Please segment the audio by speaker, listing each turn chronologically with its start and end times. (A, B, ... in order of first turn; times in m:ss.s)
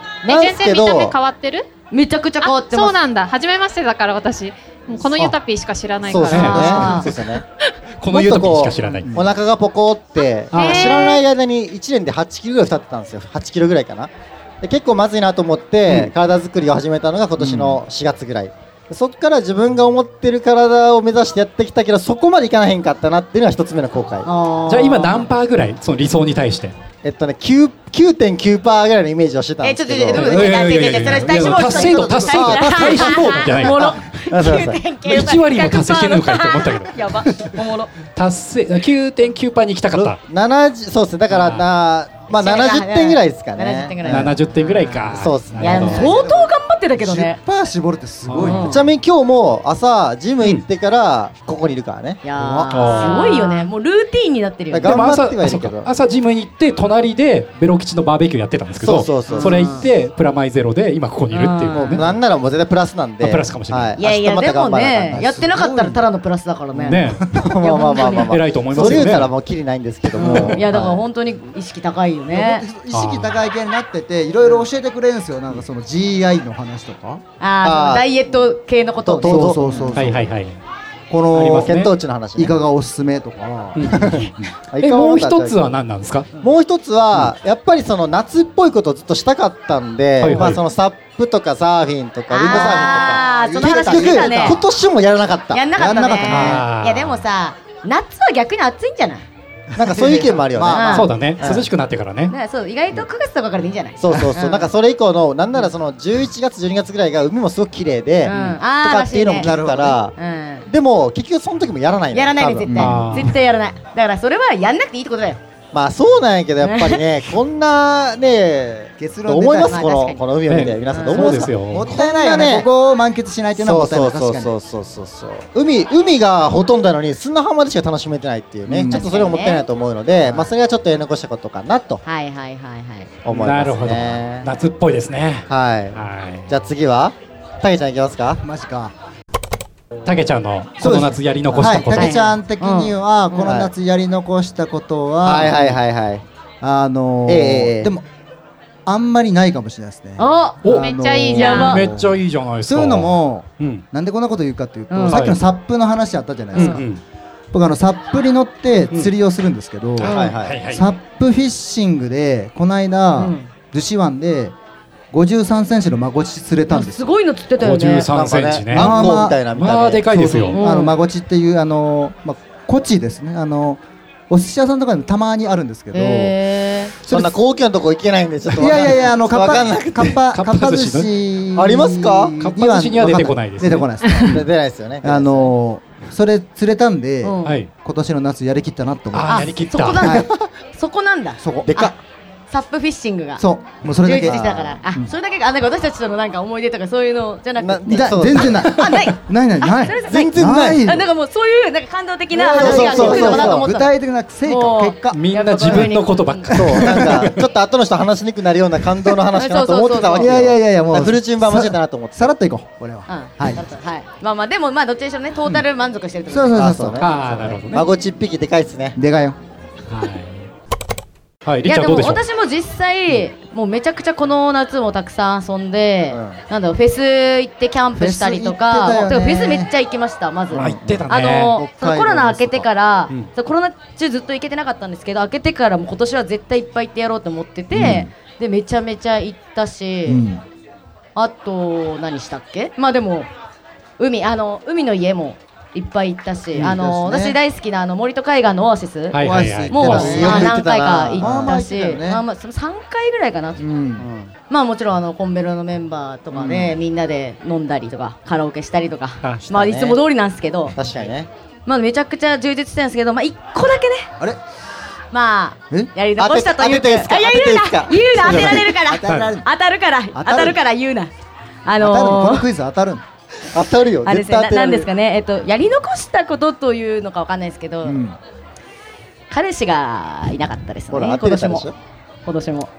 0:00.2-0:01.2 A
0:00.2-0:01.6 B
0:01.9-0:03.0 C
0:02.4-0:07.0 B
0:06.0-0:07.4 A
0:06.1-0:07.1 C
0:06.2-0:07.1 D
0:08.0-0:09.1 D
0:08.1-0:24.3 A
0:08.9-0:09.3 E
0:10.5-0:10.9 D
0:10.5-0:11.2 B
0:17.4-0:17.8 D
0:24.2-0:25.3 C
0:24.7-0:26.8 D
0:27.0-0:30.6 A
0:29.6-0:37.9 C
0:30.1-0:34.0 D
0:31.3-0:33.2 E
0:32.3-0:33.0 A
0:33.7-0:34.8 A
0:35.0-0:37.5 D
0:38.2-0:40.2 D
0:39.9-0:44.3 A
0:41.3-0:41.6 D
0:42.3-0:47.4 C
0:44.0-0:46.1 D
0:45.1-0:46.2 A
0:45.8-0:48.9 E
0:48.3-0:48.6 D
0:48.4-0:48.8 C
0:48.6-0:52.2 A
0:52.2-0:55.1 C
0:52.4-0:53.3 E
0:52.7-0:53.5 D
0:54.7-0:55.9 A
0:54.9-1:02.2 D
0:58.8-0:59.8 A
0:59.3-0:59.8 C
1:01.3-1:02.0 C
1:01.7-1:05.4 A
1:03.2-1:04.0 D
1:04.0-1:07.0 C
1:05.1-1:06.0 E
1:06.8-1:07.2 D
1:07.2-1:07.5 E
1:07.3-1:11.0 A
1:07.6-1:09.0 C
1:08.0-1:09.3 D
1:10.1-1:12.6 C
1:10.2-1:10.6 D
1:12.3-1:17.2 E
1:12.9-1:13.4 D
1:17.4-1:20.0 C
1:17.6-1:18.1 A
1:19.0-1:20.0 A
1:19.2-1:20.3 E
1:19.9-1:20.6 D
1:21.1-1:21.7 E
1:21.3-1:21.9 D
1:21.6-1:22.6 A
1:22.4-1:24.2 E
1:23.8-1:26.3 D
1:23.9-1:25.7 A
1:26.4-1:35.6 A
1:30.2-1:30.6 D
1:32.3-1:34.6 C
1:32.4-1:34.6 E
1:35.5-1:39.2 C
1:35.8-1:36.6 E
1:36.2-1:37.2 D
1:39.8-1:41.1 E
1:39.8-1:41.7 A
1:40.7-1:41.1 C
1:40.9-1:42.3 D
1:42.3-1:44.7 C
1:44.0-1:50.1 A
1:48.2-1:49.5 C
1:49.4-1:50.0 E
1:50.2-1:50.7 C
1:50.7-1:52.9 A
1:52.1-1:55.4 C
1:52.6-1:53.0 E
1:52.8-1:53.4 D
1:55.7-2:02.7 A
1:56.6-1:57.1 C
1:59.0-1:59.8 E
1:59.7-2:00.2 C
2:00.5-2:01.9 D
2:00.9-2:01.3 C
2:01.2-2:04.5 E
2:01.9-2:02.6 C
2:03.5-2:12.0 A
2:08.7-2:09.1 E
2:08.9-2:09.6 C
2:12.0-2:13.1 C
2:13.2-2:14.5 A
2:13.3-2:16.5 D
2:15.5-2:18.4 A
2:18.4-2:18.9 E
2:20.0-2:22.3 D
2:20.8-2:25.7 E
2:21.9-2:23.5 C
2:23.4-2:23.7 A
2:25.2-2:26.2 A
2:25.4-2:25.7 D
2:26.6-2:28.0 E
2:27.2-2:27.9 A
2:28.9-2:36.8 E
2:30.2-2:30.6 C
2:30.6-2:30.9 D
2:30.7-2:31.8 B
2:31.3-2:31.9 C
2:31.5-2:33.8 D
2:34.9-2:35.2 C
2:35.0-2:35.4 D
2:36.5-2:37.0 D
2:36.5-2:36.8 C
2:37.5-2:44.5 E
2:40.0-2:40.8 D
2:40.0-2:40.4 C
2:40.0-2:40.6 A
2:43.2-2:43.5 C
2:45.1-2:47.1 E
2:46.7-2:48.1 C
2:47.6-2:50.6 D
2:48.1-2:50.6 A
2:48.7-2:49.4 E
2:50.5-2:50.9 C
2:50.6-2:56.4 E
2:55.9-2:56.9 C
2:57.0-2:57.4 E
2:57.1-3:00.2 A
2:58.6-3:04.5 E
3:00.3-3:01.1 D
3:01.5-3:02.4 A
3:02.4-3:03.9 D
3:04.2-3:05.5 A
3:05.0-3:10.3 E
3:07.2-3:07.6 C
3:07.4-3:07.7 D
3:09.1-3:10.2 D
3:09.3-3:11.9 C
3:11.4-3:11.9 E
3:11.6-3:11.9 A
3:12.5-3:13.4 C
3:13.4-3:15.1 E
3:14.0-3:23.9 C
3:14.3-3:14.8 A
3:17.6-3:19.1 A
3:17.9-3:21.0 E
3:20.1-3:20.8 A
3:22.3-3:25.9 E
3:22.5-3:23.7 A
3:24.4-3:26.5 C
3:25.1-3:27.3 D
3:26.5-3:27.4 E
3:26.5-3:32.3 A
3:29.3-3:30.4 C
3:30.1-3:33.6 E
3:33.1-3:36.6 C
3:36.3-3:37.8 E
3:36.5-3:39.0 A
3:37.0-3:37.8 D
3:39.0-3:39.4 E
3:39.9-3:40.5 D
3:41.4-3:42.2 D
3:41.6-4:00.2 C
3:46.1-3:46.4 A
3:48.0-3:49.7 E
3:50.5-3:51.6 D
3:50.6-3:51.0 A
3:51.6-3:52.7 E
3:57.7-3:58.1 E
4:00.1-4:00.4 E
4:01.2-4:03.3 C
4:04.0-4:13.6 C
4:06.5-4:07.4 E
4:09.1-4:10.5 D
4:09.2-4:10.5 E
4:09.8-4:11.5 A
4:11.2-4:12.2 E
4:13.6-4:14.1 E
4:14.0-4:14.3 A
4:14.5-4:20.8 C
4:16.3-4:16.7 A
4:19.5-4:20.0 A
4:20.8-4:21.3 A
4:21.6-4:24.1 C
4:25.1-4:31.1 C
4:26.2-4:28.8 A
4:28.2-4:29.5 E
4:29.0-4:29.4 D
4:30.1-4:30.6 E
4:31.6-4:32.4 C
4:31.8-4:33.0 E
4:33.5-4:34.9 A
4:34.0-4:38.0 C
4:37.8-4:38.2 E
4:39.3-4:41.7 C
4:40.9-4:41.7 A
4:42.2-4:42.7 C